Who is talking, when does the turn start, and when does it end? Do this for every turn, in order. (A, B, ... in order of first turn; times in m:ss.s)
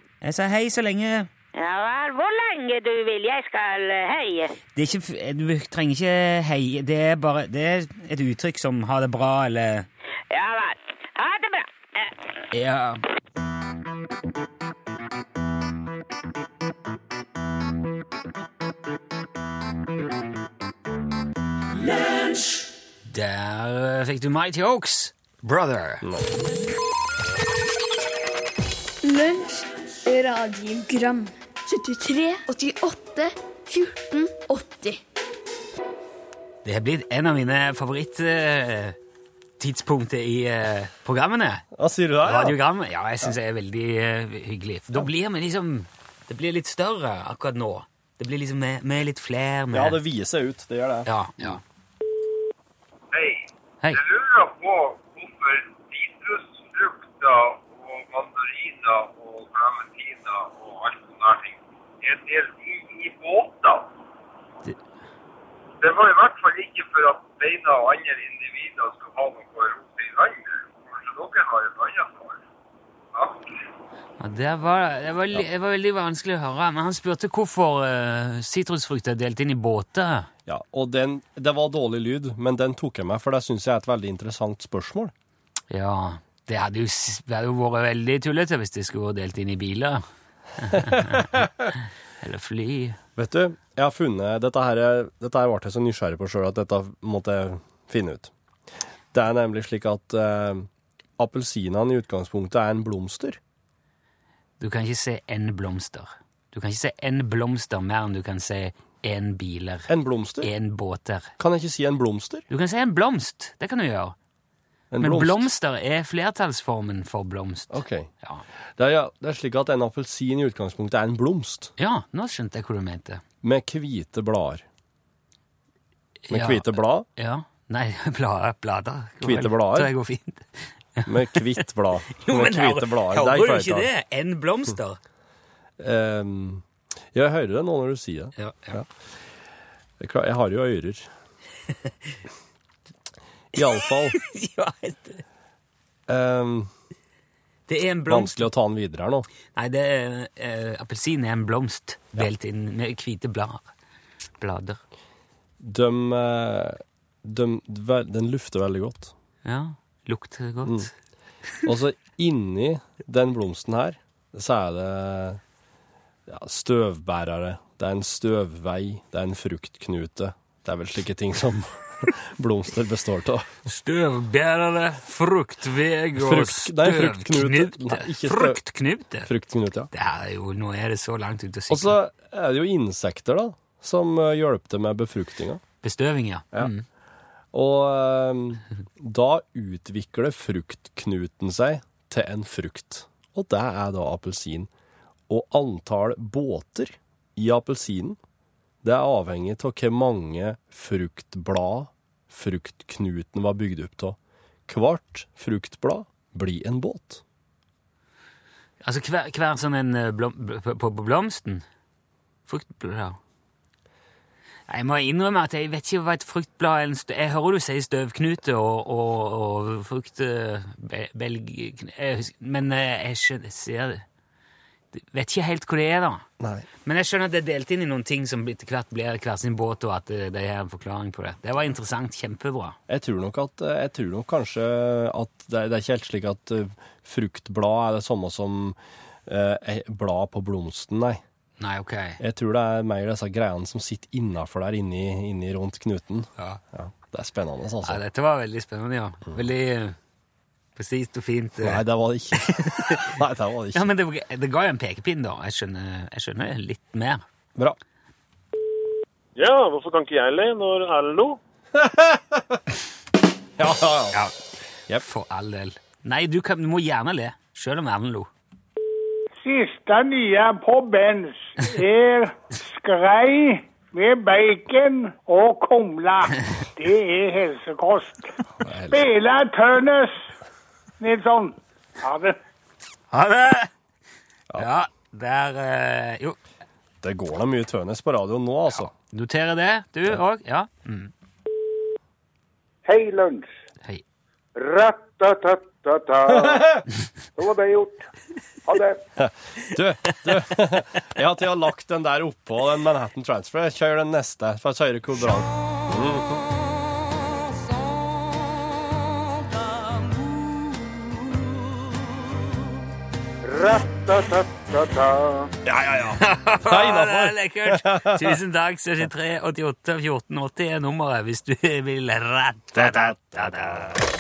0:00.2-0:01.3 A
0:01.6-0:04.6 B
0:04.8-0:09.9 A
0:10.3-0:12.1 B
0:12.5-0:13.0 A
0:23.1-0:26.0 A
0:29.0-0:35.0 C
0:36.6-0:39.0 A
0:39.6-0:41.7 A
0:41.8-0:42.6 D
0:42.2-0:50.0 A
0:49.7-0:51.6 D
0:51.1-0:51.6 A
0:53.1-1:03.9 E
1:05.8-1:12.4 E
1:13.1-1:13.5 E
1:14.2-1:20.3 A
1:20.5-1:25.1 D
1:25.7-1:30.0 A
1:30.6-1:31.4 A
1:30.8-1:31.7 D
1:32.2-1:33.0 A
1:33.2-1:38.3 D
1:39.1-1:43.4 D
1:44.6-1:49.9 A
1:49.9-1:50.5 D
1:50.4-1:51.3 A
1:51.4-1:52.4 D
1:52.5-1:54.2 A
1:54.9-1:55.5 D
1:55.0-1:58.4 A
1:57.7-1:58.1 D
1:58.8-2:01.7 D
2:01.8-2:03.2 A
2:03.4-2:04.6 D
2:06.3-2:11.6 A
2:06.3-2:07.1 D
2:09.2-2:09.9 D
2:11.1-2:13.9 D
2:12.2-2:15.0 A
2:15.8-2:18.9 D
2:18.4-2:18.8 A
2:20.0-2:21.1 D
2:23.6-2:24.2 D
2:23.8-2:25.2 A
2:26.1-2:26.7 D
2:27.7-2:28.5 A
2:28.1-2:29.3 D
2:29.6-2:33.7 A
2:34.4-2:34.8 A
2:35.6-2:39.1 D
2:39.4-2:40.9 A
2:40.6-2:40.9 D
2:41.6-2:45.4 D
2:46.3-2:53.5 D
2:53.7-2:59.3 A
2:56.2-2:58.6 D
2:59.3-2:59.9 D
2:59.9-3:02.0 A
3:01.7-3:05.6 D
3:05.8-3:06.8 A
3:07.5-3:14.7 D
3:15.3-3:18.2 D
3:18.8-3:27.2 D
3:28.8-3:31.6 A
3:32.5-3:33.2 A
3:34.7-3:44.0 A
3:44.9-3:46.2 A
3:46.4-3:46.7 D
3:46.8-3:52.8 A
3:52.9-4:01.2 D
4:01.6-4:02.2 A
4:02.2-4:08.0 D
4:07.8-4:10.0 A
4:10.8-4:11.8 A
4:11.6-4:13.9 D
4:12.4-4:13.1 A
4:13.7-4:17.2 A
4:19.4-4:21.4 F
4:21.8-4:22.6 D
4:23.6-4:24.2 D
4:25.0-4:28.3 A
4:29.4-4:38.3 G
4:38.6-4:39.0 D
4:38.9-4:40.3 G
4:41.0-4:42.4 G
4:43.1-4:43.7 A
4:44.5-4:46.4 A
4:47.0-4:48.9 D
4:48.7-4:51.1 A
4:52.9-4:53.4 E
4:54.6-4:56.7 E
4:57.4-4:58.0 E
4:58.7-4:59.0 E
4:59.2-5:06.4 D
5:13.5-5:15.5 E
5:15.6-5:18.4 D
5:16.2-5:24.0 A
5:22.7-5:24.0 D